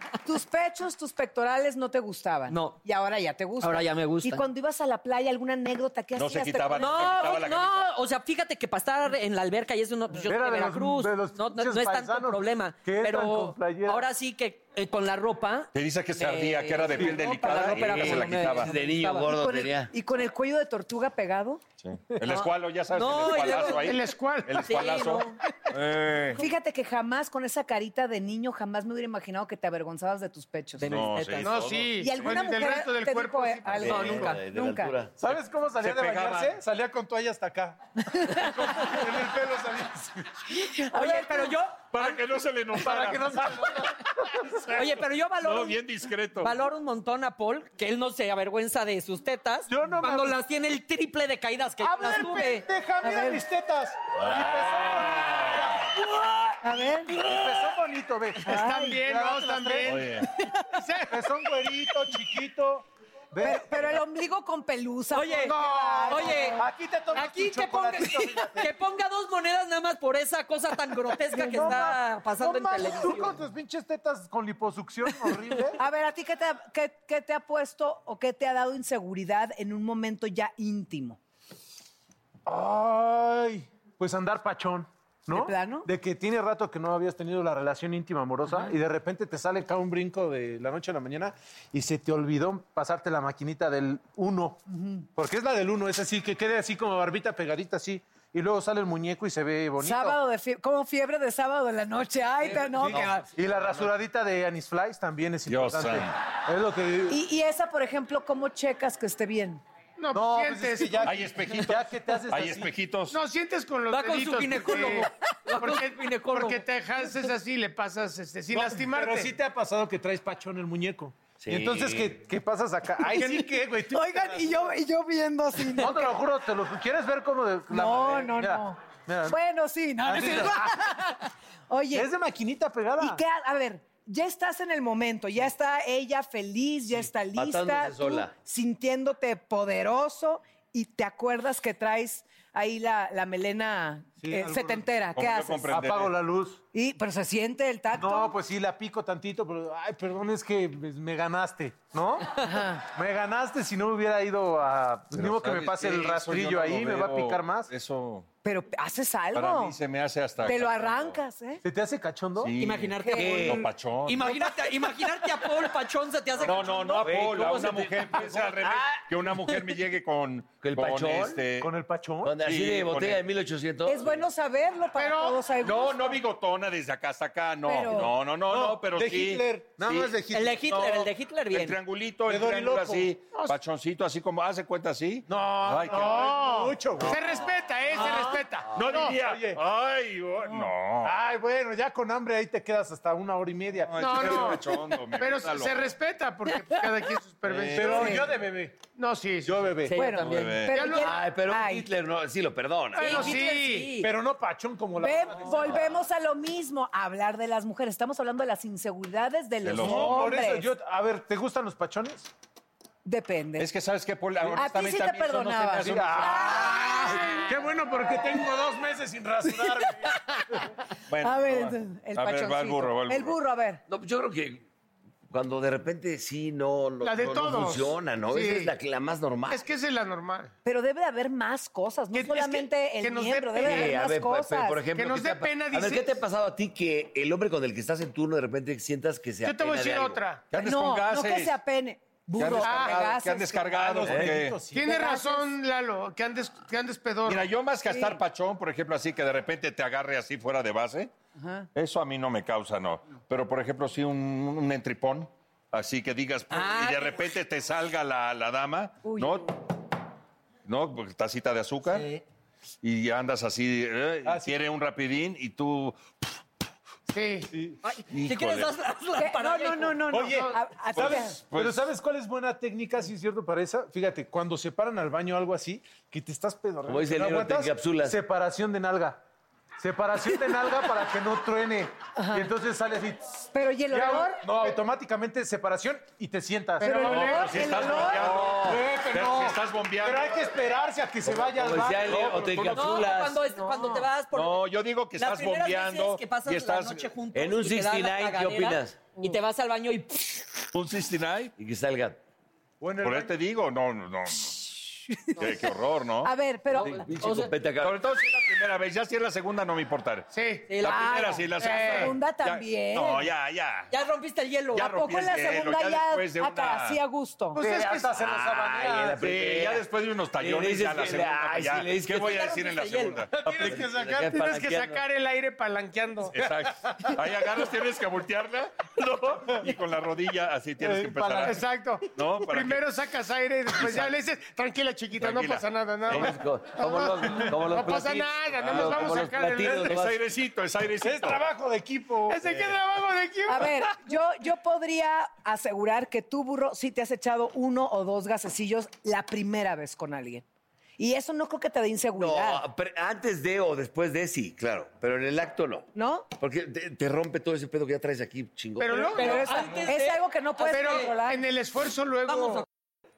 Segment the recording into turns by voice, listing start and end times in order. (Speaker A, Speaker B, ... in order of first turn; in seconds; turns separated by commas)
Speaker A: 0.2-7.4, Speaker B: 2.5-2.8, Speaker B: 3.6-4.4, Speaker C: 6.2-7.8, Speaker B: 6.8-19.4, Speaker D: 10.3-14.1, Speaker C: 15.7-18.7, Speaker D: 17.0-18.4, Speaker E: 17.8-19.9, Speaker A: 19.2-21.6, Speaker C: 21.8-26.4, Speaker B: 22.3-25.4, Speaker F: 23.6-24.7, Speaker A: 26.4-31.0, Speaker B: 30.8-31.5, Speaker C: 30.9-32.5, Speaker F: 31.4-34.3, Speaker E: 31.5-31.9, Speaker A: 32.0-35.0, Speaker B: 33.8-34.4, Speaker E: 33.8-35.1, Speaker D: 35.2-40.3, Speaker C: 35.3-36.6, Speaker A: 38.1-38.8, Speaker B: 40.6-42.2, Speaker A: 40.8-41.5, Speaker C: 41.9-43.4, Speaker D: 42.7-44.8, Speaker B: 44.7-45.8, Speaker C: 45.4-46.5, Speaker B: 46.4-52.7, Speaker D: 49.7-50.4, Speaker D: 51.8-55.9, Speaker A: 53.0-53.4, Speaker C: 54.1-55.9, Speaker B: 55.1-57.7, Speaker A: 56.6-57.1, Speaker D: 57.1-60.2, Speaker A: 58.4-59.0, Speaker F: 58.5-60.0, Speaker C: 59.9-60.3, Speaker B: 60.3-60.6, Speaker F: 60.7-61.2, Speaker D: 61.1-63.9, Speaker A: 63.4-66.6, Speaker B: 65.1-65.5, Speaker D: 65.5-68.7, Speaker B: 66.1-66.6, Speaker B: 67.1-73.4, Speaker D: 71.3-75.8, Speaker A: 71.3-72.0, Speaker A: 75.8-81.2, Speaker D: 82.5-94.6, Speaker A: 85.3-85.9, Speaker A: 88.5-88.7, Speaker A: 94.7-95.0, Speaker D: 95.2-100.2, Speaker A: 99.8-103.2, Speaker E: 102.5-102.7, Speaker D: 102.5-107.2, Speaker C: 102.8-103.2, Speaker E: 103.4-103.9, Speaker C: 105.5-106.1, Speaker A: 107.1-109.6, Speaker F: 110.0-111.1, Speaker D: 110.1-112.7, Speaker C: 111.0-113.2, Speaker F: 113.1-119.3, Speaker B: 113.9-116.6, Speaker D: 118.5-124.8, Speaker E: 121.4-122.2, Speaker A: 123.1-126.2, Speaker D: 125.7-129.4, Speaker A: 127.7-132.1, Speaker D: 130.1-130.7, Speaker D: 131.9-133.2, Speaker A: 133.0-145.7, Speaker E: 137.3-138.3, Speaker D: 144.2-144.9, Speaker C: 145.2-146.2, Speaker D: 145.7-146.6, Speaker A: 146.7-148.3, Speaker D: 147.9-157.7, Speaker A: 152.4-152.8, Speaker C: 155.1-158.3, Speaker A: 158.4-159.8, Speaker C: 159.3-161.2, Speaker A: 160.4-161.6, Speaker D: 161.6-162.5, Speaker C: 162.4-164.3, Speaker B: 162.6-167.0, Speaker A: 163.0-163.6, Speaker E: 163.2-163.6, Speaker C: 166.4-171.7, Speaker E: 166.9-169.1, Speaker E: 170.6-171.4, Speaker D: 171.4-172.4, Speaker E: 172.2-174.2, Speaker C: 172.4-173.2, Speaker A: 173.8-176.2, Speaker F: 175.0-175.4, Speaker C: 175.5-186.3, Speaker A: 177.7-178.1, Speaker D: 178.0-180.8, Speaker B: 180.3-181.8, Speaker D: 182.2-183.1, Speaker D: 185.3-189.6, Speaker F: 185.9-189.1, Speaker C: 188.7-191.2, Speaker D: 190.5-194.6, Speaker C: 193.9-195.9, Speaker F: 194.0-198.2, Speaker C: 197.4-198.0, Speaker D: 197.7-198.8, Speaker A: 197.9-198.2, Speaker F: 198.9-199.7, Speaker D: 199.4-200.0, Speaker B: 199.9-200.7, Speaker A: 200.0-201.9, Speaker C: 200.2-200.8, Speaker F: 200.7-201.1, Speaker E: 200.9-203.3, Speaker F: 203.0-203.9, Speaker B: 203.0-204.1, Speaker A: 203.0-203.4, Speaker D: 203.9-205.9, Speaker A: 205.0-210.7, Speaker C: 209.6-210.3, Speaker D: 209.7-212.3, Speaker A: 213.1-213.7, Speaker C: 213.6-216.7, Speaker A: 214.5-217.4, Speaker D: 215.8-220.6, Speaker A: 220.4-220.6, Speaker C: 221.1-223.4, Speaker A: 221.2-223.8, Speaker E: 223.9-224.7, Speaker E: 225.3-229.6, Speaker F: 227.0-228.7, Speaker F: 229.5-230.5, Speaker A: 230.7-234.8, Speaker F: 232.1-233.9, Speaker E: 233.7-240.2, Speaker F: 234.9-236.1, Speaker F: 239.4-240.4, Speaker C: 240.5-241.6, Speaker A: 240.6-243.9, Speaker C: 242.4-244.6, Speaker F: 242.6-243.1, Speaker D: 243.7-244.9, Speaker E: 244.1-244.4, Speaker F: 244.7-247.5, Speaker A: 244.8-245.6, Speaker C: 247.2-251.1, Speaker A: 247.9-248.2, Speaker A: 251.4-251.7, Speaker C: 251.8-259.5, Speaker B: 256.5-257.2, Speaker A: 259.0-259.5, Speaker C: 260.7-262.1, Speaker C: 262.8-266.0, Speaker D: 264.2-264.6, Speaker F: 267.1-267.5, Speaker D: 267.5-267.8, Speaker B: 267.8-270.0, Speaker C: 268.1-268.8, Speaker A: 269.2-271.4, Speaker D: 270.1-279.2, Speaker C: 270.9-271.9, Speaker E: 276.9-278.2, Speaker D: 279.8-292.8, Speaker A: 282.2-282.5, Speaker A: 283.5-284.5, Speaker F: 286.8-287.8, Speaker A: 286.8-288.3, Speaker C: 287.1-290.5, Speaker E: 288.2-288.9, Speaker E: 291.2-293.4, Speaker C: 292.0-293.1, Speaker B: 292.7-294.6, Speaker A: 293.5-294.1, Speaker C: 294.3-297.1, Speaker B: 295.2-300.5, Speaker E: 297.3-299.0, Speaker C: 300.7-301.5, Speaker E: 301.6-302.2, Speaker D: 302.8-303.4, Speaker C: 303.0-304.8, Speaker A: 305.1-305.7, Speaker C: 305.4-306.3, Speaker A: 306.2-307.1, Speaker B: 306.8-307.5, Speaker E: 307.1-307.9, Speaker C: 307.8-313.9, Speaker F: 310.3-310.7, Speaker B: 310.7-311.5, Speaker A: 310.8-313.3, Speaker F: 311.6-312.1, Speaker B: 313.9-315.0, Speaker C: 314.7-317.0, Speaker A: 314.8-317.6, Speaker F: 317.6-318.1, Speaker D: 317.6-319.4, Speaker E: 318.2-319.8, Speaker C: 319.2-323.8, Speaker E: 320.4-322.4, Speaker B: 322.2-323.2, Speaker D: 323.3-324.4, Speaker E: 323.6-325.0, Speaker F: 324.2-326.3, Speaker C: 326.3-332.9, Speaker D: 326.4-327.2, Speaker D: 330.8-331.7, Speaker F: 331.5-339.9, Speaker C: 333.8-334.1, Speaker C: 335.2-336.4, Speaker E: 336.1-340.2, Speaker C: 338.5-339.2, Speaker C: 339.9-341.4, Speaker D: 341.0-342.4, Speaker F: 342.3-343.8, Speaker A: 343.5-350.4, Speaker A: 351.0-352.7, Speaker E: 352.2-359.4, Speaker A: 355.9-356.3, Speaker F: 358.8-359.7, Speaker A: 359.1-361.4, Speaker B: 359.1-361.1, Speaker F: 360.6-362.6, Speaker B: 362.3-362.7